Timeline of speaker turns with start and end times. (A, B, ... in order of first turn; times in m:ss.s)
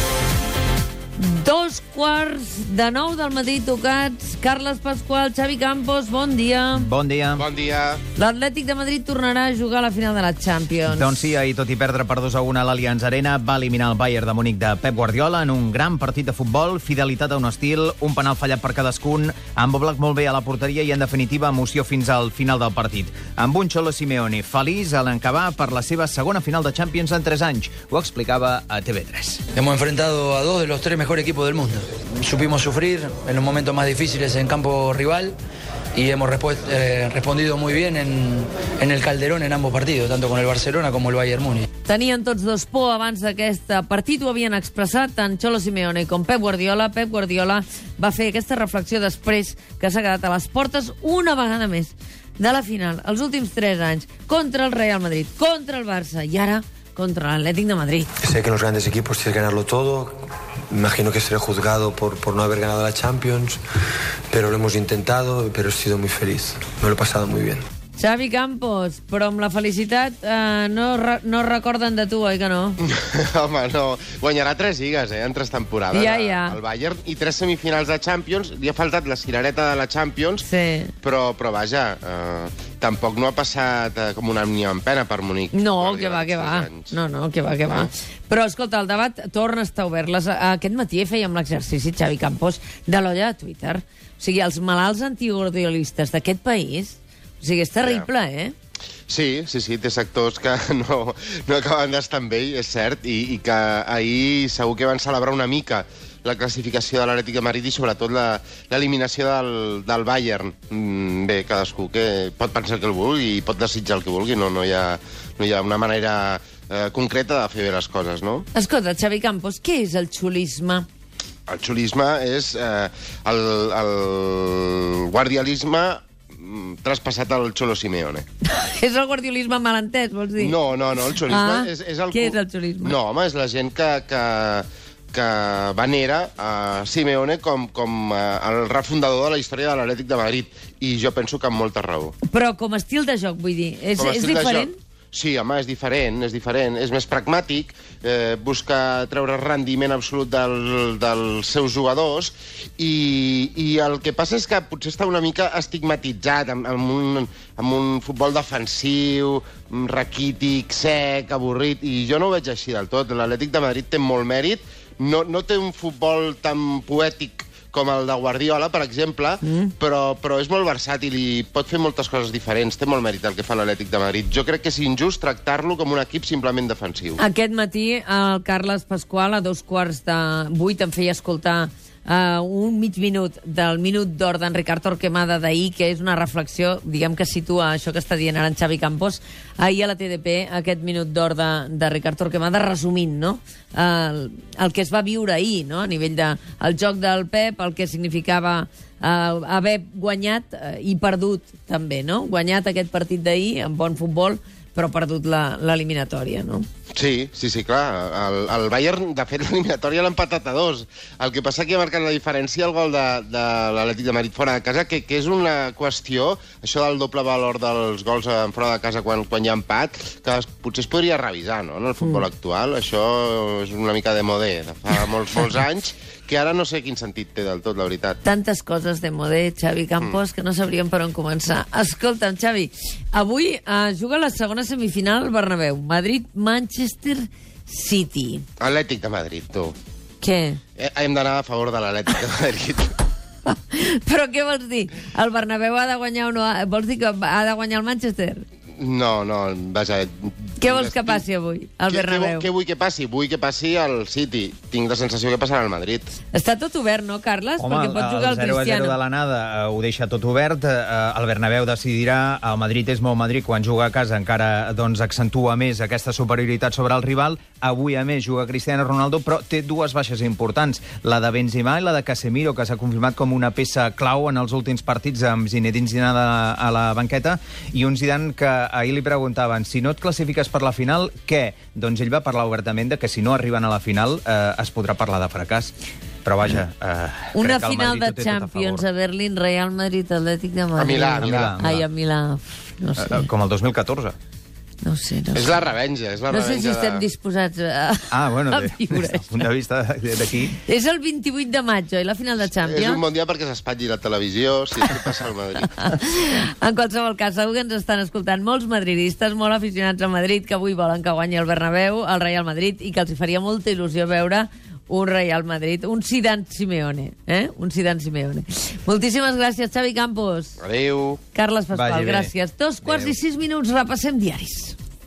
0:01.2-0:06.9 A
0:06.8-0:07.4 B
0:07.3-0:08.0 C
0:08.2-0:11.3 A
0:10.9-0:29.4 B
0:29.5-0:35.4 D
0:35.9-0:41.6 D
0:41.8-0:58.1 A
0:58.2-1:03.6 E
1:04.3-1:07.6 E
1:08.0-1:12.8 A
1:12.8-1:20.4 C
1:15.9-1:16.6 A
1:20.4-1:20.9 A
1:21.0-1:27.0 C
1:25.5-1:38.5 A
1:39.1-1:58.4 C
1:58.5-2:00.8 A
2:01.5-2:08.2 C
2:08.4-2:13.0 A
2:10.4-2:22.1 C
2:22.2-2:24.8 A
2:24.0-2:57.2 C
2:49.4-2:49.7 A
2:57.2-3:26.6 A
3:26.9-3:48.2 C
3:48.2-3:58.4 A
3:58.6-3:59.8 C
4:00.2-4:00.6 A
4:00.8-4:02.9 C
4:03.4-4:08.4 A
4:08.8-4:11.2 C
4:10.6-4:12.5 A
4:11.9-4:16.1 C
4:16.3-4:19.0 A
4:17.6-4:45.7 B
4:46.2-4:48.8 B
4:47.3-4:53.3 A
4:50.8-4:51.5 C
4:51.2-4:51.8 B
4:53.0-4:54.1 B
4:54.8-4:55.6 A
4:55.3-4:57.0 C
4:56.3-4:59.4 A
4:58.1-5:00.6 B
5:00.6-5:03.0 A
5:02.6-5:05.7 C
5:05.7-5:20.6 A
5:20.6-5:21.2 C
5:21.3-5:24.8 A
5:21.7-5:22.3 B
5:22.8-5:23.1 B